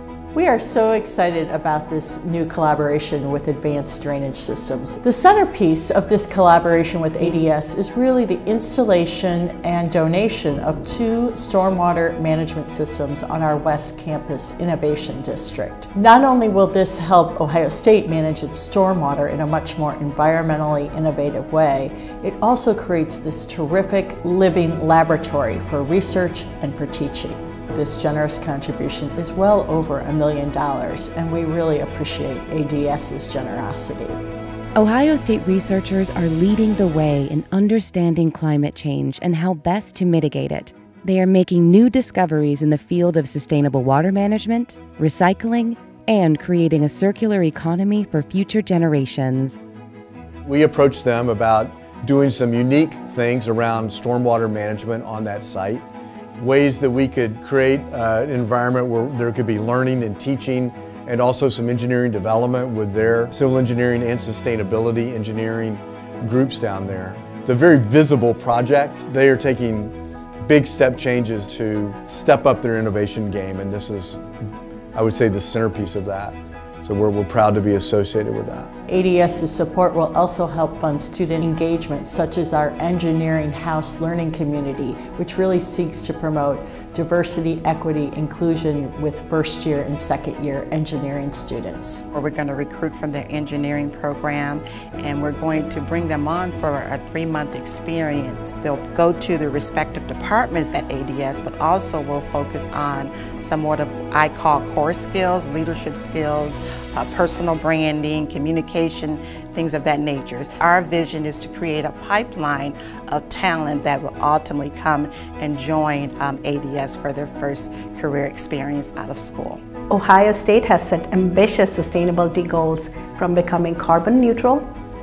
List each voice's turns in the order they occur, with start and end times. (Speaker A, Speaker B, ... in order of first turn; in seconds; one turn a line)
Speaker A: 0.3-34.2
Speaker B: 34.8-49.5
Speaker C: 50.4-55.8
Speaker C: 56.4-74.2
Speaker C: 74.9-78.7
Speaker A: 78.9-92.0
Speaker D: 92.1-119.6
Speaker E: 119.9-124.6